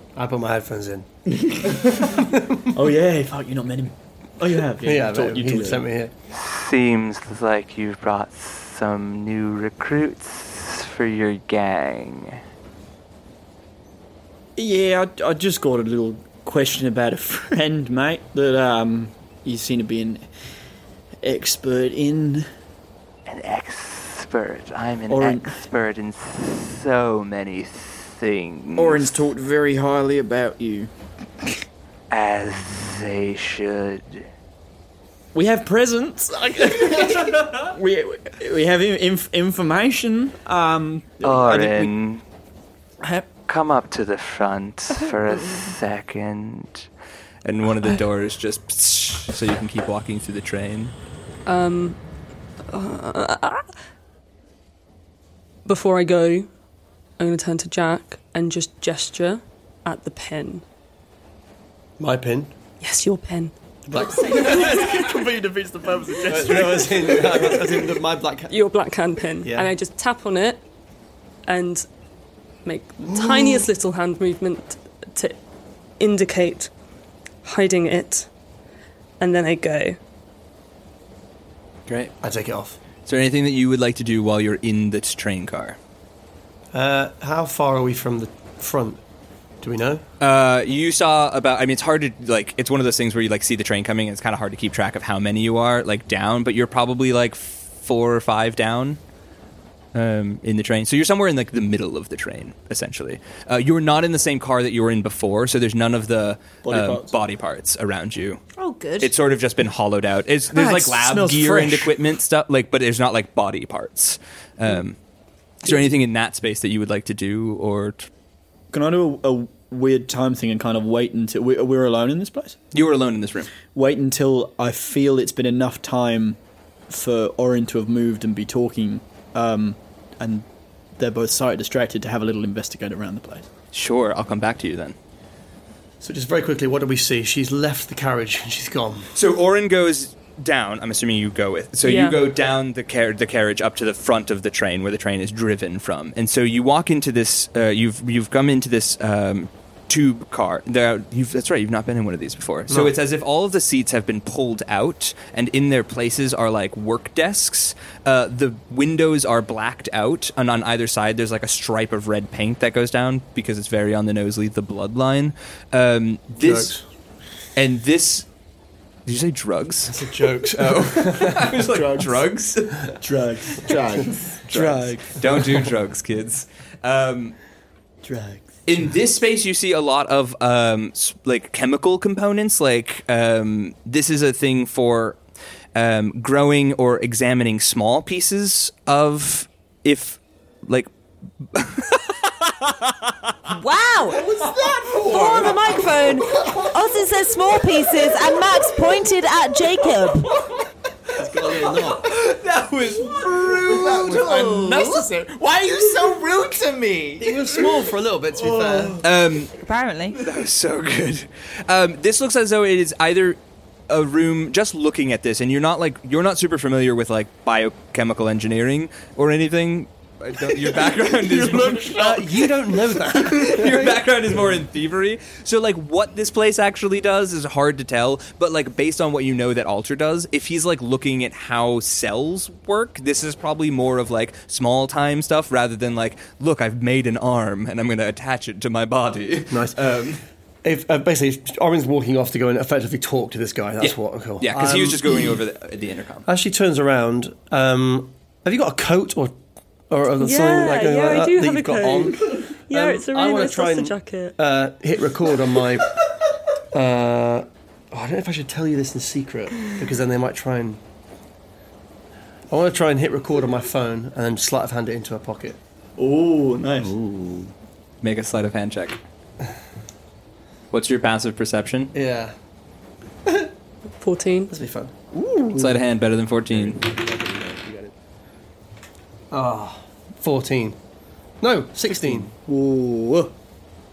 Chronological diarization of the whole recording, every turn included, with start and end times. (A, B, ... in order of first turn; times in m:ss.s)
0:00.2-0:02.5 A
0:02.7-0:05.9 B
0:04.8-0:06.1 A
0:06.3-0:12.4 C
0:14.6-0:20.2 B
0:21.2-0:22.5 B
0:23.2-0:29.1 C
0:25.1-0:25.6 B
0:28.8-0:30.9 B
0:32.1-0:34.3 C
0:35.3-0:41.9 B
0:41.2-0:42.2 C
0:43.3-0:46.9 C
0:47.4-0:50.9 C
0:51.4-0:52.0 D
0:52.7-0:53.7 D
0:55.6-0:56.5 D
0:57.2-1:00.6 D
1:02.0-1:02.5 A
1:02.8-1:03.5 D
1:03.9-1:05.1 A
1:04.0-1:07.8 B
1:06.2-1:08.5 A
1:08.5-1:10.6 D
1:09.4-1:09.7 A
1:11.4-1:11.8 D
1:12.6-1:15.4 D
1:16.0-1:16.7 D
1:17.4-1:18.3 D
1:19.2-1:20.0 D
1:21.9-1:22.1 C
1:22.2-1:22.8 A
1:23.0-1:25.8 C
1:26.7-1:29.0 A
1:29.6-1:30.0 A
1:30.2-1:39.0 C
1:39.9-1:48.4 C
1:46.6-1:47.1 B
1:48.6-1:49.1 E
1:49.0-1:55.0 C
1:50.5-1:52.0 B
1:55.6-1:58.1 C
1:58.7-2:02.6 B
2:02.7-2:03.5 C
2:03.7-2:06.4 B
2:06.9-2:10.4 B
2:11.0-2:13.5 B
2:13.7-2:15.0 C
2:16.0-2:19.1 A
2:19.1-2:46.8 C
2:21.8-2:22.2 D
2:46.4-2:46.8 A
2:47.5-2:48.3 C
2:49.0-2:53.0 C
2:49.9-2:51.5 A
2:51.7-2:52.3 B
2:53.0-2:55.2 B
2:53.6-2:54.4 F
2:54.4-2:57.4 C
2:58.0-2:58.9 B
2:58.6-3:05.2 C
3:05.7-3:10.9 C
3:11.4-3:13.1 C
3:13.5-3:14.4 E
3:14.1-3:16.8 F
3:15.0-3:20.3 E
3:20.2-3:20.5 C
3:21.2-3:22.1 A
3:21.3-3:25.0 C
3:23.3-3:27.6 F
3:27.2-3:29.0 A
3:28.5-3:28.9 F
3:29.0-3:29.5 C
3:29.6-3:30.2 E
3:30.1-4:00.2 C
3:40.8-3:44.4 A
3:59.5-3:59.8 A
4:00.6-4:05.4 A
4:03.8-4:06.3 C
4:06.3-4:09.4 A
4:09.9-4:16.0 A
4:10.2-4:14.3 D
4:16.7-4:20.8 A
4:22.5-4:25.6 A
4:26.0-4:26.9 B
4:26.8-4:27.5 F
4:28.0-4:29.0 C
4:30.7-4:31.9 C
4:31.9-4:32.3 A
4:34.0-4:34.5 D
4:34.5-4:34.9 A
4:35.1-4:35.7 B
4:35.5-4:36.8 C
4:36.5-4:37.9 A
4:39.3-4:40.8 A
4:41.4-4:42.3 A
4:41.9-4:43.3 B